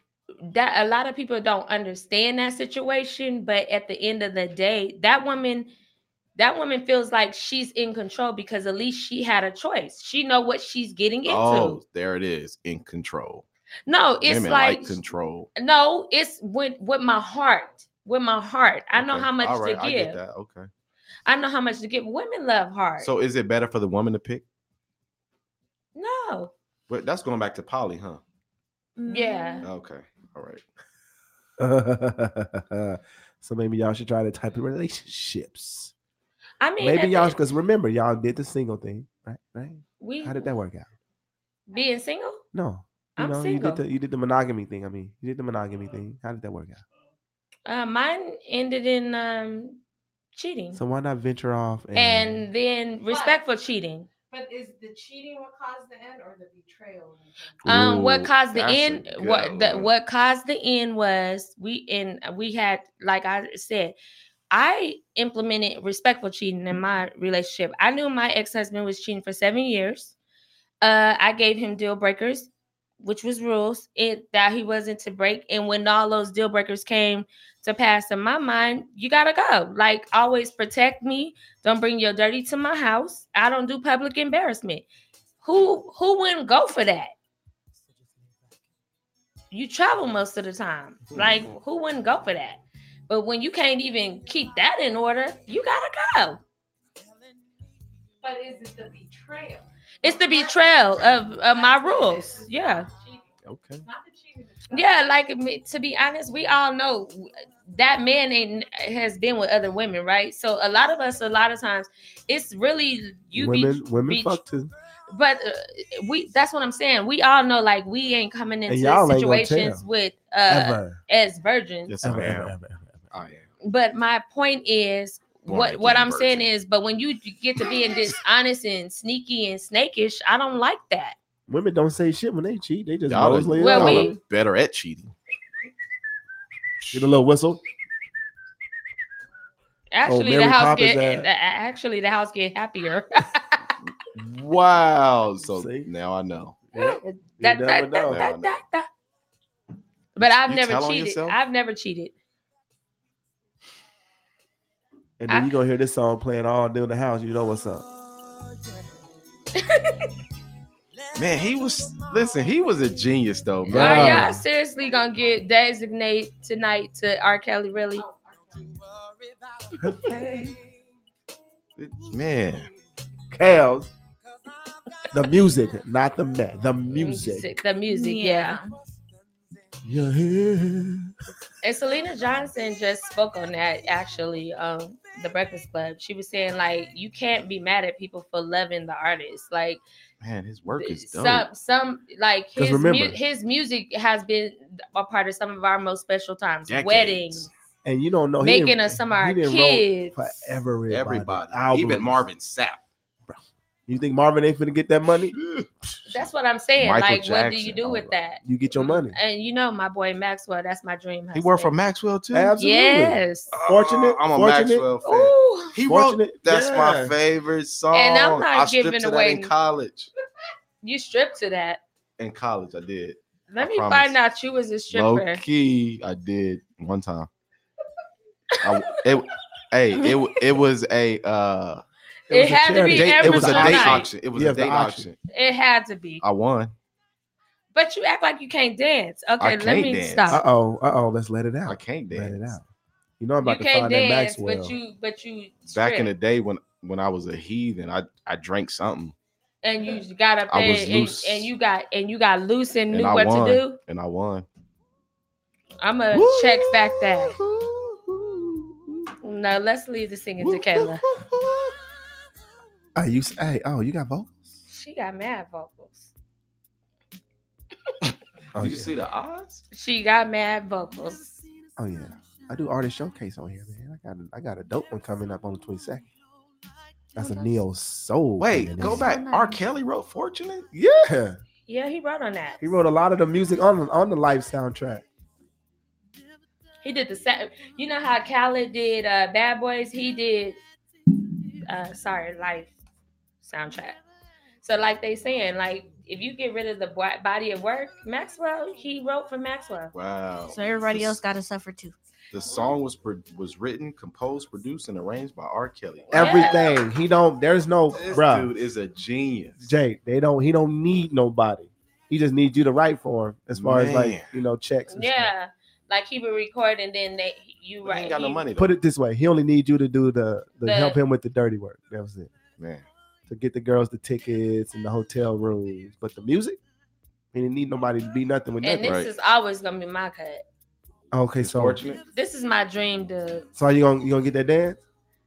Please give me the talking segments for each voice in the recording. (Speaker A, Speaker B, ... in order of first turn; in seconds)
Speaker A: 0.5-5.7, 6.4-11.8, 13.9-15.0, 15.6-20.2, 21.3-23.1, 25.9-26.5, 29.1-29.7, 36.6-37.4, 40.0-40.5, 41.7-42.4, 43.2-43.8, 47.7-49.8, 50.3-50.8, 52.0-54.1, 57.6-64.0, 64.5-70.2, 70.8-72.5, 73.0-84.9, 85.4-87.1, 89.5-96.4, 100.0-102.9, 104.7-114.4, 115.1-122.0, 123.6-131.2, 133.6-134.2, 139.9-143.7, 146.8-148.9, 150.2-152.1, 159.6-160.1, 163.7-168.1, 176.9-178.6, 181.6-189.8, 190.8-197.5, 198.4-200.5, 206.1-211.8, 212.6-213.6, 215.1-215.8, 217.9-219.5, 220.8-221.8, 223.5-225.4, 232.3-234.1, 235.3-236.2, 237.7-240.4, 243.4-246.1, 249.6-253.8, 255.8-257.4, 259.2-261.0, 264.7-266.1, 269.7-271.3, 281.7-282.6, 286.8-290.6, 291.6-292.7, 293.4-294.0, 294.6-299.9, 306.1-306.7, 314.9-318.4, 320.6-321.0, 328.6-330.4, 332.1-333.5
Speaker B: 11.2-13.4, 14.2-15.5, 19.0-20.7, 23.0-24.4, 26.9-28.2, 29.6-30.6, 57.6-59.9, 103.5-103.8, 121.9-122.5, 123.1-123.5, 125.5-126.5, 133.1-135.1, 144.1-146.6, 148.1-148.6, 150.2-151.4, 161.1-164.3, 171.8-172.7, 190.2-191.5, 196.7-197.5, 200.9-202.8, 205.3-205.7, 206.8-208.2, 211.3-212.6, 213.5-220.1, 222.2-224.2, 224.9-227.3, 228.6-231.8, 232.9-235.2, 236.2-236.7, 239.4-240.4, 241.7-242.6, 245.7-249.2, 250.5-251.5, 252.9-254.5, 256.1-259.1, 260.4-261.7, 268.6-269.6, 278.4-280.7, 299.9-301.2, 302.3-306.5, 307.9-309.7, 313.5-314.4, 317.9-318.7, 322.6-322.9, 328.8-329.1, 331.4-332.0
Speaker C: 29.0-29.7, 177.9-178.7, 277.2-277.6, 278.8-279.6, 300.5-302.0
Speaker D: 31.6-35.9, 36.8-40.9, 42.5-46.8, 50.7-52.5, 113.3-114.7, 118.7-119.8, 120.5-121.0, 122.0-123.0, 131.5-134.2, 136.9-137.6, 140.1-141.3, 145.6-145.9, 146.7-148.3, 155.2-157.9, 163.7-164.4, 169.8-170.4, 173.3-173.9, 175.1-177.5, 179.8-181.1, 192.6-193.2, 197.8-202.2, 203.3-205.3, 208.4-209.2, 212.3-214.8, 215.9-217.2, 232.3-235.1, 240.3-242.7, 243.2-244.8, 263.0-264.5, 268.6-268.9, 271.8-276.1, 277.1-279.1, 280.7-281.4, 282.6-285.1, 306.1-308.5, 309.6-315.3, 318.6-322.3, 323.3-326.6, 327.3-329.0, 331.1-331.8, 333.6-334.8
Speaker E: 53.1-53.4, 54.3-57.8, 98.2-103.3, 103.8-105.0, 167.9-168.8